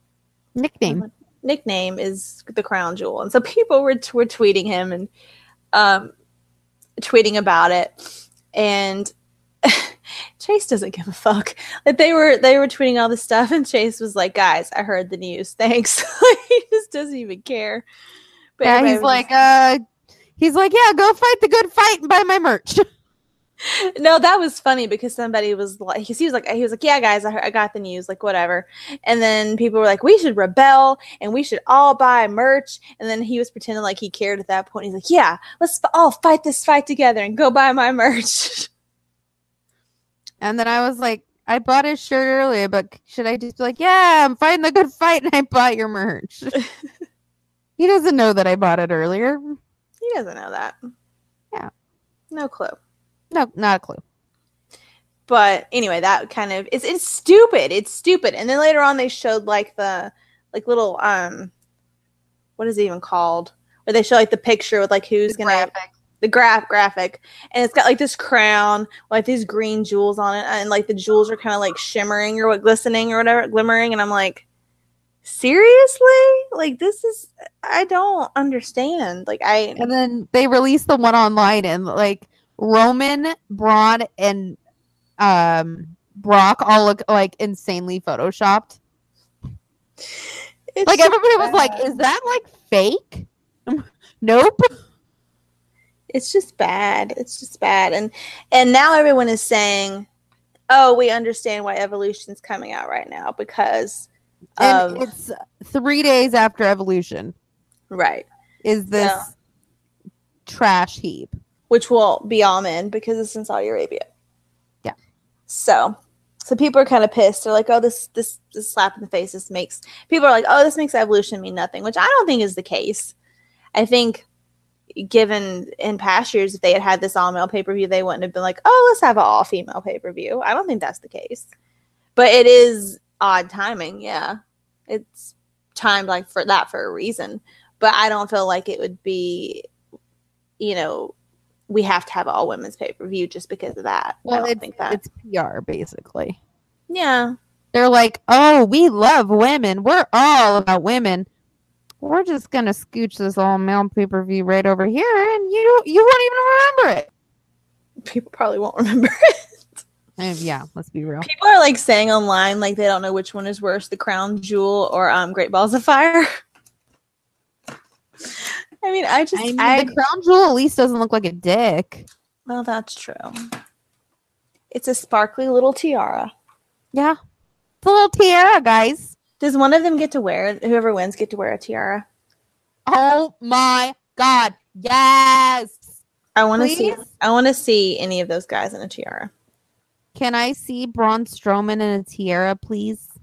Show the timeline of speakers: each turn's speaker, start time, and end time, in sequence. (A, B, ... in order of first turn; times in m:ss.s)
0:00.6-0:01.1 A
0:00.8-0:05.1 B
0:05.7-0:06.1 B
0:07.0-0:09.1 B
0:09.6-0:17.8 B
0:18.6-0:19.3 B
0:18.6-0:19.8 A
0:20.4-0:22.8 A
0:23.6-0:38.7 B
0:40.4-0:46.6 A
0:47.8-0:49.6 A
0:50.0-0:50.8 B
0:52.3-0:52.8 B
0:53.3-0:54.0 A
0:55.3-1:01.5 B
1:02.6-1:05.7 B
1:05.3-1:05.9 A
1:06.2-1:14.4 B
1:15.2-1:19.9 B
1:19.8-1:24.6 A
1:25.2-1:28.8 A
1:30.8-1:31.9 B
1:30.9-1:34.7 A
1:36.1-1:40.1 B
1:40.7-1:45.1 B
1:44.6-1:47.4 A
1:47.9-1:48.3 B
1:48.6-1:49.3 A
1:49.0-1:49.3 B
1:50.5-1:51.3 A
1:51.7-1:54.0 B
1:55.5-2:03.1 B
2:03.8-2:04.2 B
2:05.0-2:11.5 B
2:12.2-2:14.4 B
2:14.9-2:19.7 B
2:20.6-2:21.1 B
2:21.7-2:25.0 B
2:24.2-2:26.4 A
2:26.9-2:27.4 B
2:27.7-2:31.3 A
2:32.0-2:37.1 A
2:38.0-2:39.1 B
2:40.2-2:41.3 A
2:41.2-2:46.3 B
2:48.8-2:50.0 B
2:49.4-2:52.1 A
2:52.5-2:53.4 B
2:54.7-2:56.3 B
2:56.9-2:57.2 A
2:57.8-2:59.2 A
2:59.4-3:02.1 B
3:02.9-3:05.8 A
3:06.4-3:09.3 B
3:06.6-3:07.0 A
3:10.2-3:13.1 A